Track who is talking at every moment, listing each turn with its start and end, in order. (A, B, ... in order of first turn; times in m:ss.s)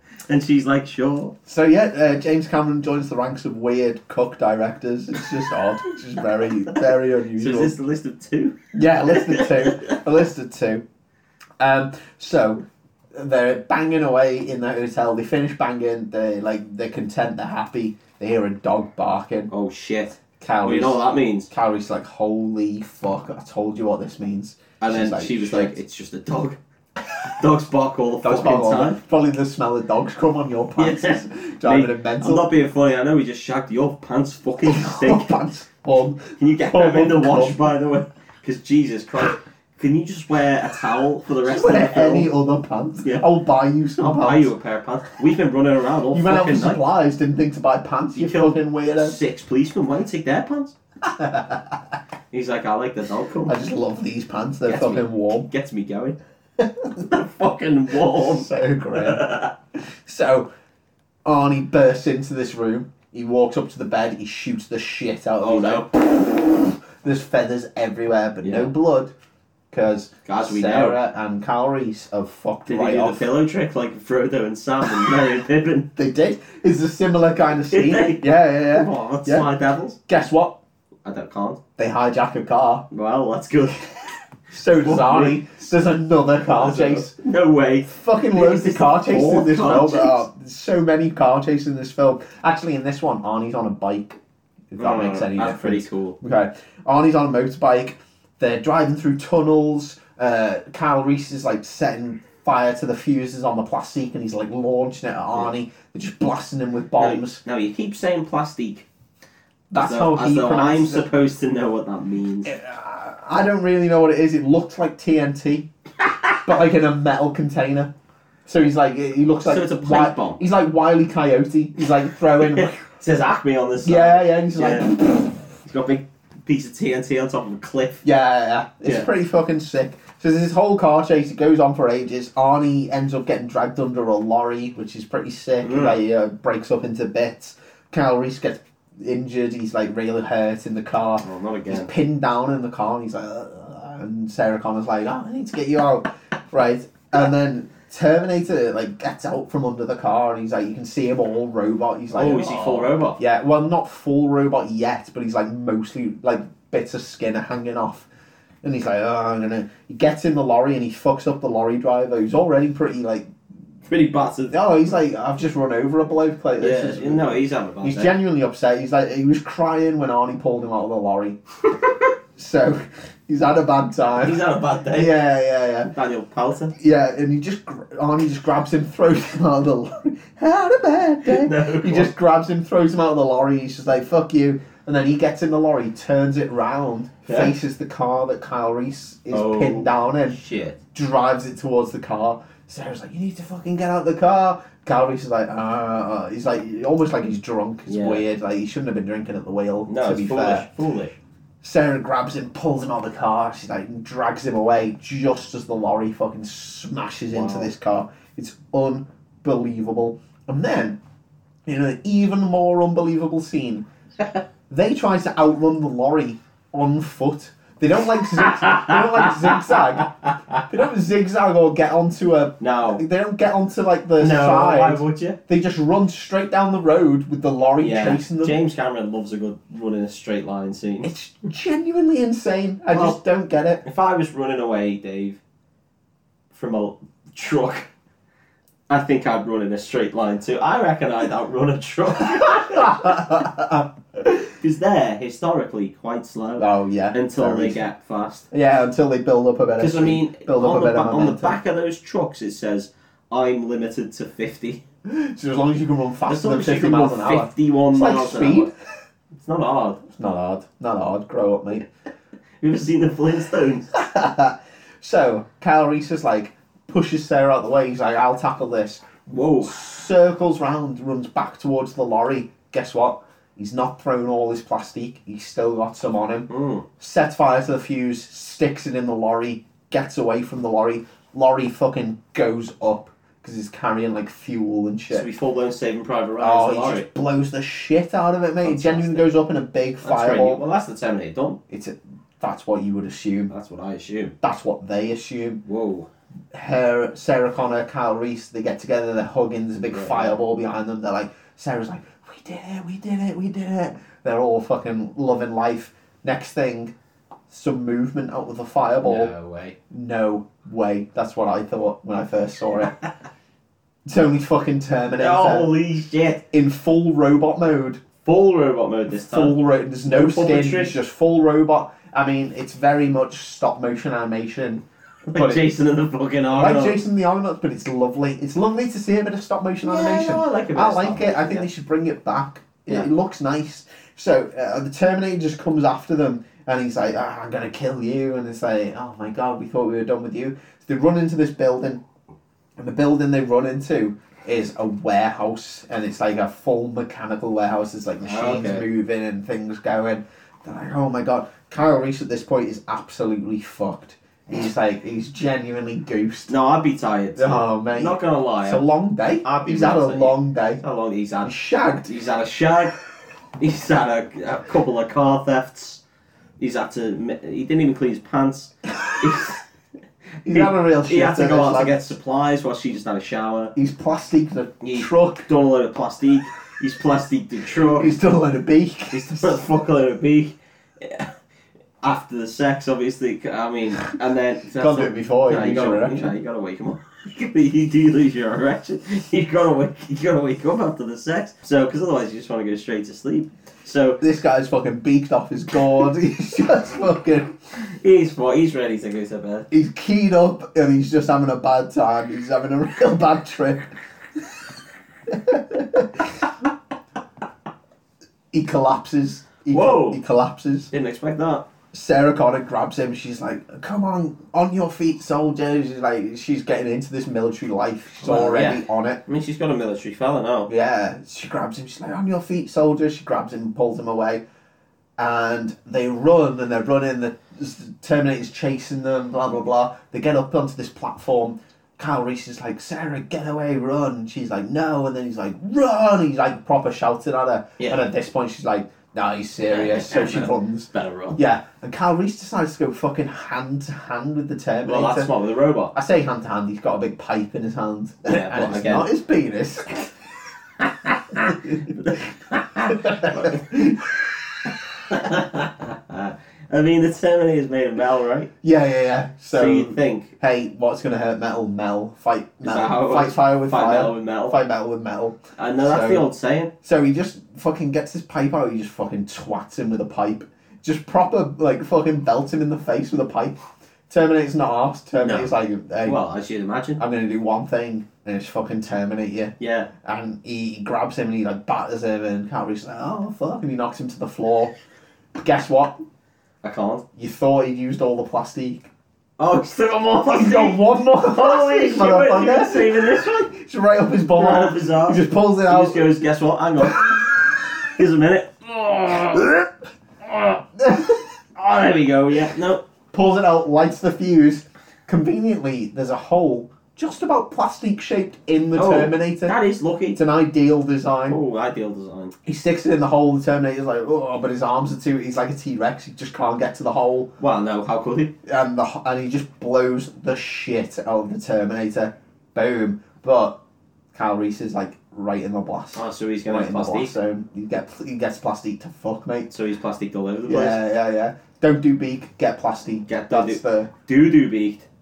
0:00.3-0:01.3 A
0:01.4-0:07.7 B
0:07.4-0:08.6 A
0:08.7-0:10.8 B
0:09.1-0:10.0 A
0:11.6-0:12.6 B
0:13.1-0:19.5 B
0:19.5-0:21.5 A
0:20.4-0:25.7 B
0:24.8-0:26.6 A
0:27.4-0:29.0 A
0:28.2-0:32.5 B
0:30.8-0:35.3 A
0:34.6-0:37.6 B
0:36.4-0:42.3 A
0:41.4-0:44.5 B
0:44.0-0:46.8 A
0:46.1-0:49.2 B
0:48.1-0:50.8 A
0:51.0-0:51.8 B
0:52.3-0:53.6 A
0:53.5-0:55.5 B
0:54.6-0:56.2 A
0:56.6-0:57.0 B
0:57.0-0:59.5 A
0:58.1-0:59.2 B
0:59.9-1:00.5 B
1:01.2-1:09.1 B
1:05.4-1:05.9 A
1:08.4-1:08.7 A
1:09.7-1:13.3 B
1:10.2-1:11.0 A
1:12.7-1:15.9 A
1:16.0-1:19.5 B
1:17.7-1:20.0 A
1:20.1-1:20.6 B
1:21.0-1:21.6 A
1:21.8-1:22.8 B
1:22.9-1:24.1 A
1:24.5-1:27.1 B
1:24.7-1:25.8 A
1:26.5-1:30.2 A
1:27.8-1:34.2 B
1:34.7-1:47.4 B
1:34.8-1:36.2 A
1:47.0-1:48.9 A
1:49.7-1:51.1 B
1:49.7-1:52.5 A
1:52.4-1:55.7 B
1:56.4-1:57.9 B
1:58.4-2:02.8 B
1:59.4-2:00.4 A
2:02.4-2:04.9 A
2:03.8-2:05.4 B
2:05.6-2:08.0 A
2:08.0-2:38.1 B
2:08.8-2:09.1 A
2:15.6-2:16.0 A
2:21.2-2:21.9 A
2:32.1-2:33.2 A
2:38.6-2:43.3 B
2:43.9-2:44.5 A
2:44.5-2:51.4 B
2:46.6-2:48.1 A
2:52.4-2:54.4 B
2:54.2-2:55.2 A
2:54.9-2:55.9 B
2:55.9-2:56.7 A
2:56.8-3:10.4 B
3:01.2-3:02.1 A
3:07.2-3:07.5 A
3:09.3-3:10.8 A
3:10.9-3:20.7 B
3:17.9-3:18.2 A
3:19.9-3:21.2 A
3:21.6-3:31.0 B
3:27.3-3:27.7 A
3:31.6-3:33.8 B
3:34.7-3:40.1 B
3:38.4-3:40.6 A
3:40.7-3:48.6 B
3:42.6-3:43.0 A
3:44.2-3:45.4 A
3:47.8-3:51.1 A
3:51.0-3:53.8 B
3:52.9-3:53.2 A
3:53.8-3:55.4 A
3:56.5-3:57.9 A
3:58.9-4:03.2 A
4:02.3-4:04.5 B
4:04.6-4:08.5 A
4:06.6-4:07.8 B
4:08.5-4:11.6 B
4:09.8-4:14.8 A
4:15.0-4:18.7 B
4:16.3-4:18.7 A
4:19.4-4:20.0 A
4:20.1-4:21.9 B
4:22.6-4:23.9 A
4:23.9-4:36.5 B
4:29.3-4:29.8 A
4:36.5-4:36.8 A
4:37.0-4:45.3 B
4:45.1-4:47.1 A
4:46.4-4:50.6 B
4:48.6-4:49.3 A
4:50.0-4:51.6 A
4:51.7-4:53.5 B
4:53.5-4:54.3 A
4:54.4-4:55.6 B
4:55.6-4:56.1 A
4:56.5-5:06.9 B
4:59.9-5:00.4 A
5:07.5-5:09.3 B
5:09.0-5:09.8 A
5:09.9-5:12.9 B
5:14.0-5:15.7 B
5:15.2-5:16.4 A
5:16.5-5:18.0 B
5:18.2-5:21.0 A
5:19.2-5:25.7 B
5:25.3-5:27.0 A
5:26.5-5:42.0 B
5:29.8-5:31.7 A
5:42.8-5:56.5 B
5:48.2-5:48.8 A
5:56.5-5:58.8 A
5:57.4-6:00.8 B
5:59.4-6:01.5 A
6:01.4-6:02.1 B
6:02.0-6:03.0 A
6:03.6-6:06.0 A
6:06.6-6:09.6 A
6:10.4-6:11.9 B
6:10.5-6:13.7 A
6:13.7-6:15.5 B
6:14.8-6:18.1 A
6:17.8-6:19.6 B
6:19.1-6:21.3 A
6:22.0-6:34.2 A
6:24.8-6:26.3 B
6:34.2-6:37.5 B
6:38.0-6:39.7 A
6:39.7-6:43.9 B
6:45.3-6:46.5 B
6:48.5-6:50.9 B
6:49.7-6:50.2 A
6:50.9-6:51.6 A
6:51.9-6:59.2 B
6:58.2-7:00.7 A
7:00.7-7:04.4 B
7:05.2-7:25.3 B
7:19.6-7:21.4 A
7:24.8-7:25.9 A
7:25.9-7:29.9 B
7:28.2-7:29.1 A
7:30.8-7:34.0 A
7:31.4-7:31.9 B
7:32.9-7:34.0 B
7:35.0-7:38.5 A
7:38.6-7:46.3 B
7:39.5-7:40.3 A
7:42.6-7:44.6 A
7:45.6-7:46.7 A
7:46.8-7:56.2 B
7:55.2-7:55.5 A
7:56.0-7:57.0 A
7:57.0-8:04.7 B
7:59.6-7:59.9 A
8:05.4-8:06.0 B
8:06.6-8:07.0 A
8:07.2-8:08.9 B
8:09.4-8:13.5 A
8:10.3-8:16.1 B
8:14.3-8:19.5 A
8:20.2-8:20.6 A
8:20.8-8:21.3 B
8:21.6-8:22.8 A
8:23.1-8:29.5 B
8:28.7-8:30.2 A
8:30.1-8:31.4 B
8:31.3-8:32.3 A
8:32.4-8:37.3 B
8:37.4-8:38.3 A
8:38.4-8:43.6 B
8:44.1-8:49.5 B
8:45.9-8:47.1 A
8:49.5-8:50.8 A
8:50.4-8:53.9 B
8:53.1-8:54.8 A